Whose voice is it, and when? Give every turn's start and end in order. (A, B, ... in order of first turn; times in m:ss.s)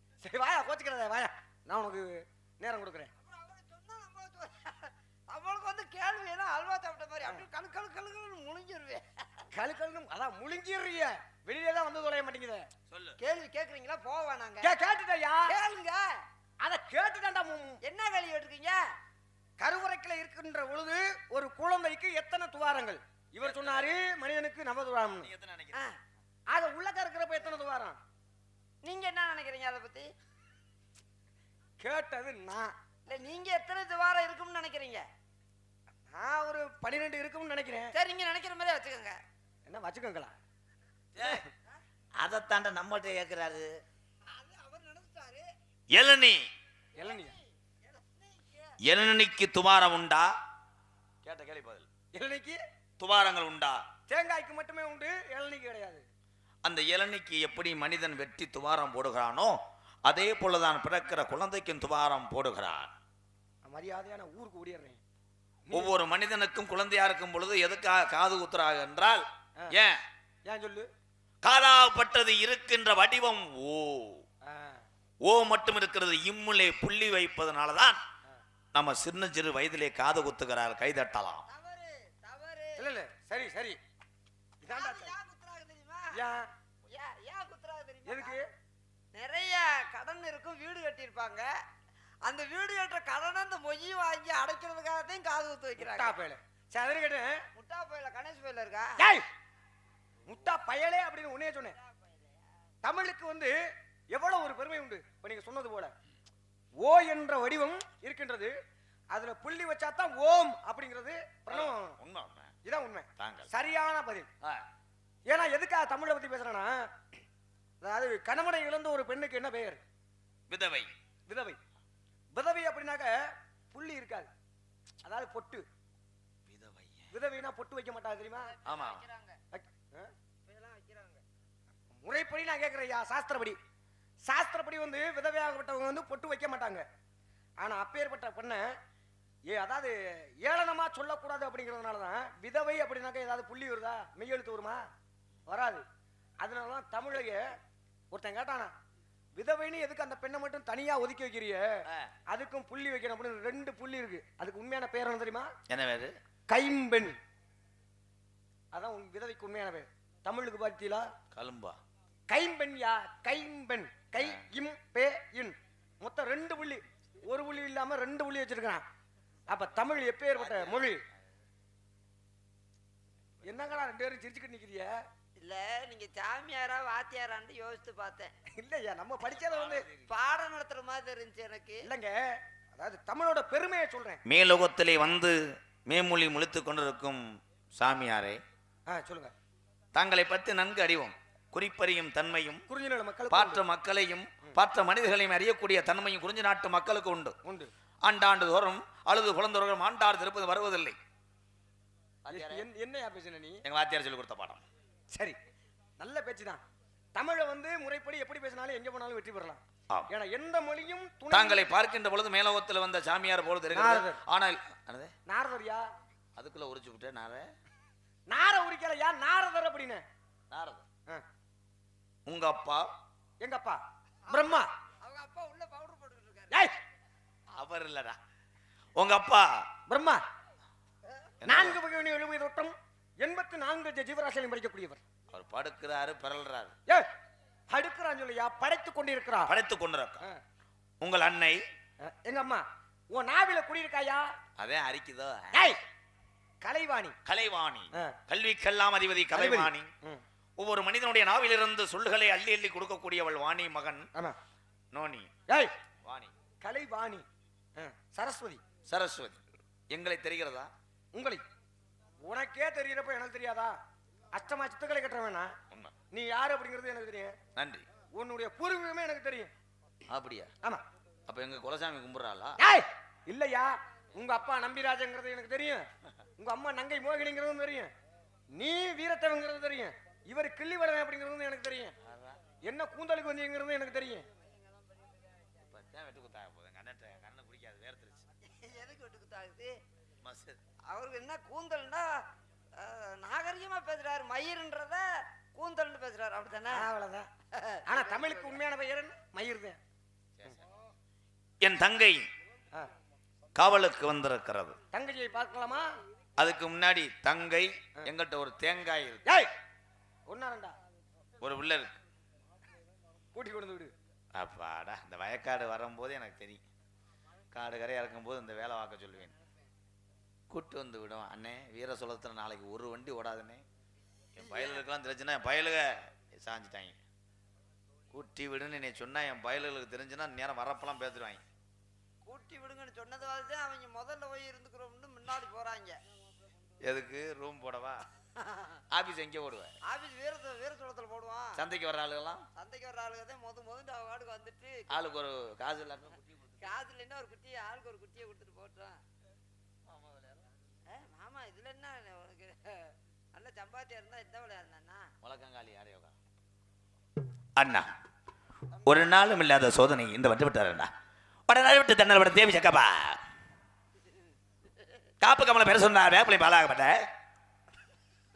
0:00.2-0:03.1 A
0:03.2-0:09.4 B
0:09.5-0:12.7 A
0:12.9-0:13.2 C
0:13.2-0:14.7 B
0:14.6-0:15.5 A
0:15.4-0:16.1 B
0:16.6-0:17.8 A
0:17.8-0:18.8 B
0:19.6-0:25.3 A
0:23.4-0:24.0 C
0:25.2-0:25.8 C
0:26.5-0:28.0 A
0:28.8-0:30.1 B
0:31.8-0:32.7 A
0:33.1-0:35.0 B
0:36.1-0:37.9 A
0:37.9-0:39.2 B
0:39.7-0:40.3 A
0:41.1-0:41.4 C
0:42.2-0:43.7 C
0:44.3-0:45.5 B
0:45.9-0:46.4 C
0:47.0-0:47.4 A
0:47.0-0:48.8 B
0:48.8-0:50.3 C
0:51.2-0:51.9 C
0:52.1-0:52.6 A
0:53.0-0:53.8 C
0:54.1-0:56.0 A
0:56.6-1:02.9 C
1:03.6-1:05.0 A
1:05.7-1:10.0 C
1:10.4-1:10.9 A
1:11.4-1:14.2 C
1:14.4-1:14.8 A
1:15.2-1:18.0 C
1:18.8-1:21.4 C
1:21.5-1:22.9 B
1:22.8-1:23.8 A
1:24.6-1:25.1 A
1:24.7-1:26.2 B
1:26.1-1:26.5 A
1:26.8-1:28.4 B
1:28.0-1:28.4 A
1:29.1-1:31.5 B
1:32.2-1:36.1 B
1:35.8-1:37.4 A
1:37.5-1:39.0 B
1:39.0-1:39.2 A
1:40.2-1:41.8 A
1:41.8-1:42.4 B
1:42.8-1:43.5 A
1:44.1-1:45.9 A
1:46.8-1:48.5 A
1:49.1-1:52.0 A
1:51.5-1:52.5 C
1:52.6-1:54.3 A
1:53.2-1:53.5 C
1:55.3-1:56.9 A
1:57.8-1:59.8 A
2:00.5-2:00.9 C
2:01.3-2:01.6 A
2:02.3-2:03.2 A
2:03.7-2:04.3 A
2:05.0-2:05.6 A
2:06.5-2:07.1 C
2:07.1-2:08.5 A
2:08.5-2:09.4 B
2:08.6-2:09.0 C
2:09.5-2:10.1 A
2:10.4-2:11.2 B
2:12.0-2:13.6 A
2:14.3-2:16.8 A
2:17.6-2:18.8 A
2:19.5-2:24.8 A
2:25.5-2:25.8 A
2:26.4-2:27.5 A
2:28.1-2:28.7 A
2:29.4-2:35.5 A
2:35.7-2:36.2 C
2:36.5-2:37.2 A
2:38.7-2:41.1 A
2:41.3-2:41.8 C
2:42.3-2:48.8 A
2:49.5-2:51.0 A
2:50.4-2:51.0 C
2:53.4-2:53.6 C
2:53.4-2:55.0 A
2:55.4-2:58.3 B
2:58.5-2:59.9 A
2:59.2-3:00.1 C
3:00.1-3:01.8 B
3:01.8-3:04.2 A
3:04.2-3:08.4 C
3:08.9-3:09.3 A
3:09.9-3:12.6 C
3:12.7-3:13.6 A
3:13.3-3:17.4 C
3:17.4-3:17.7 A
3:18.0-3:21.0 C
3:22.2-3:22.6 C
3:22.3-3:23.6 A
3:23.6-3:24.6 C
3:26.0-3:26.6 A
3:27.1-3:31.7 A
3:31.3-3:35.1 C
3:33.7-3:34.2 A
3:35.3-3:35.8 A
3:36.4-3:37.5 C
3:38.3-3:40.0 A
3:40.5-3:40.8 C
3:42.2-3:42.9 C
3:43.4-3:44.7 A
3:45.0-3:46.7 B
3:47.6-3:48.2 C
3:49.0-3:49.7 C
3:49.9-3:50.2 A
3:51.4-3:51.8 C
3:51.5-3:55.0 A
3:55.3-3:56.8 C
3:57.7-3:59.5 A
3:59.4-4:00.2 C
4:01.0-4:01.6 C
4:02.0-4:04.3 A
4:04.6-4:05.7 C
4:05.5-4:05.8 A
4:06.6-4:07.2 A
4:07.2-4:09.9 C
4:09.3-4:10.2 A
4:10.6-4:14.1 C
4:14.9-4:15.3 C
4:16.0-4:16.3 C
4:16.6-4:17.2 A
4:17.8-4:18.6 A
4:18.9-4:20.7 C
4:21.1-4:21.4 A
4:22.2-4:23.8 A
4:24.3-4:25.5 A
4:26.1-4:27.4 A
4:27.5-4:27.8 C
4:28.1-4:29.5 A
4:30.1-4:30.5 C
4:31.3-4:32.6 C
4:32.6-4:37.9 A
4:38.5-4:41.9 A
4:42.0-4:42.4 C
4:42.6-4:44.2 A
4:44.4-4:45.5 B
4:45.6-4:48.3 C
4:48.4-4:49.8 B
4:50.2-4:50.6 C
4:50.9-4:52.2 B
4:52.8-4:56.9 B
4:56.7-4:57.3 A
4:57.5-4:58.6 B
4:57.9-4:59.8 A
5:00.4-5:00.6 C
5:01.6-5:02.3 C
5:03.5-5:04.8 C
5:04.9-5:05.9 A
5:06.4-5:09.4 C
5:10.3-5:10.8 A
5:11.4-5:12.0 C
5:13.3-5:13.9 A
5:14.3-5:16.6 C
5:17.5-5:19.3 C
5:20.5-5:23.6 C
5:24.3-5:27.0 C
5:28.1-5:31.4 C
5:32.2-5:36.0 B
5:36.8-5:38.0 C
5:38.4-5:38.8 B
5:38.9-5:39.8 C
5:39.8-5:41.6 B
5:41.5-5:42.5 C
5:42.6-5:44.9 B
5:44.9-5:46.6 C
5:46.6-5:49.0 B
5:50.0-5:50.3 C
5:50.9-5:55.1 B
5:55.2-5:56.2 C
5:57.6-5:57.9 C
5:58.8-6:00.9 C
6:01.5-6:03.2 C
6:05.2-6:07.1 C